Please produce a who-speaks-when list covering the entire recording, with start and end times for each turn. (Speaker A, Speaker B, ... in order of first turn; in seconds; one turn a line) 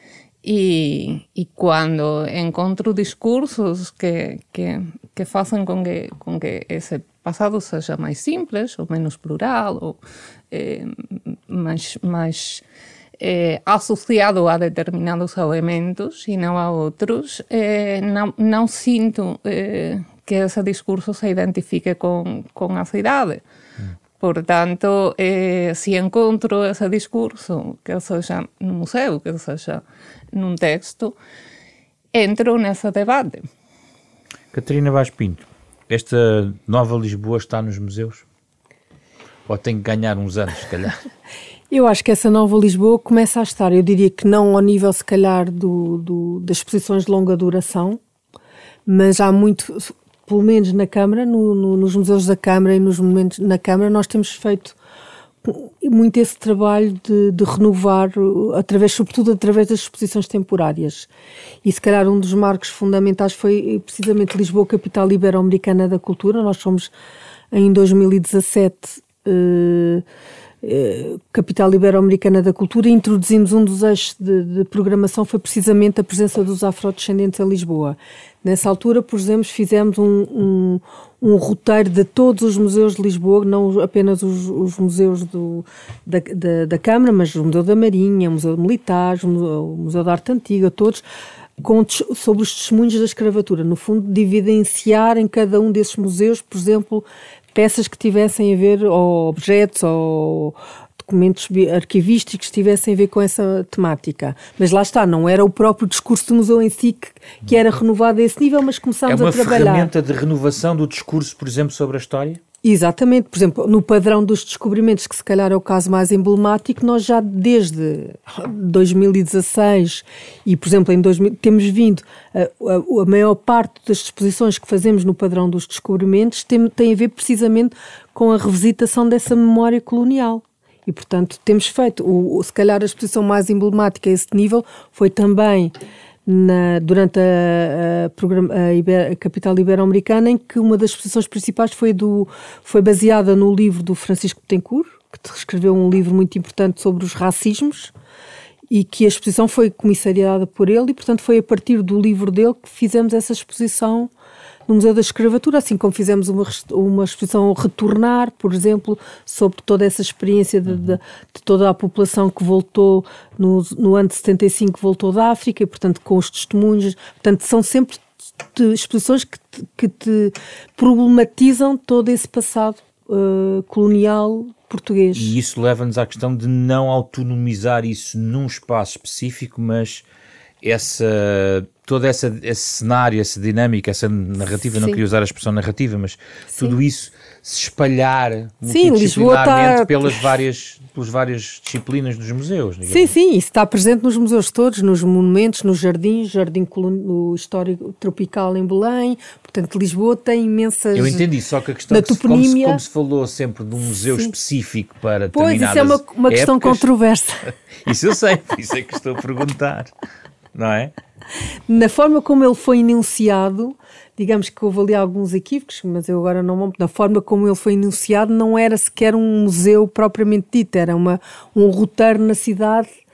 Speaker A: 0.4-10.0
Speaker A: 10.5-12.6
Speaker A: 13.2-23.4
Speaker A: 24.2-31.2
Speaker A: 32.1-33.5
Speaker B: 34.5-38.2
Speaker B: 39.5-41.0
Speaker C: 41.7-48.0
Speaker C: 48.9-54.8
Speaker C: 55.5-61.1
Speaker C: 61.6-66.9
Speaker C: 67.5-70.0
Speaker C: 70.6-91.0
Speaker C: 91.6-109.9
Speaker B: 109.1-112.4
Speaker C: 112.6-135.7
Speaker C: 136.3-147.9
Speaker C: 148.7-154.1
Speaker C: 154.7-175.4
Speaker B: 160.7-161.0
Speaker B: 175.2-180.1
Speaker B: 180.6-193.1
Speaker C: 188.7-190.3
Speaker C: 192.9-201.3
Speaker B: 200.9-206.9
Speaker C: 201.9-202.8
Speaker C: 204.0-204.3
Speaker C: 205.3-207.5
Speaker B: 207.5-209.9
Speaker B: 210.5-210.9
Speaker C: 211.7-222.9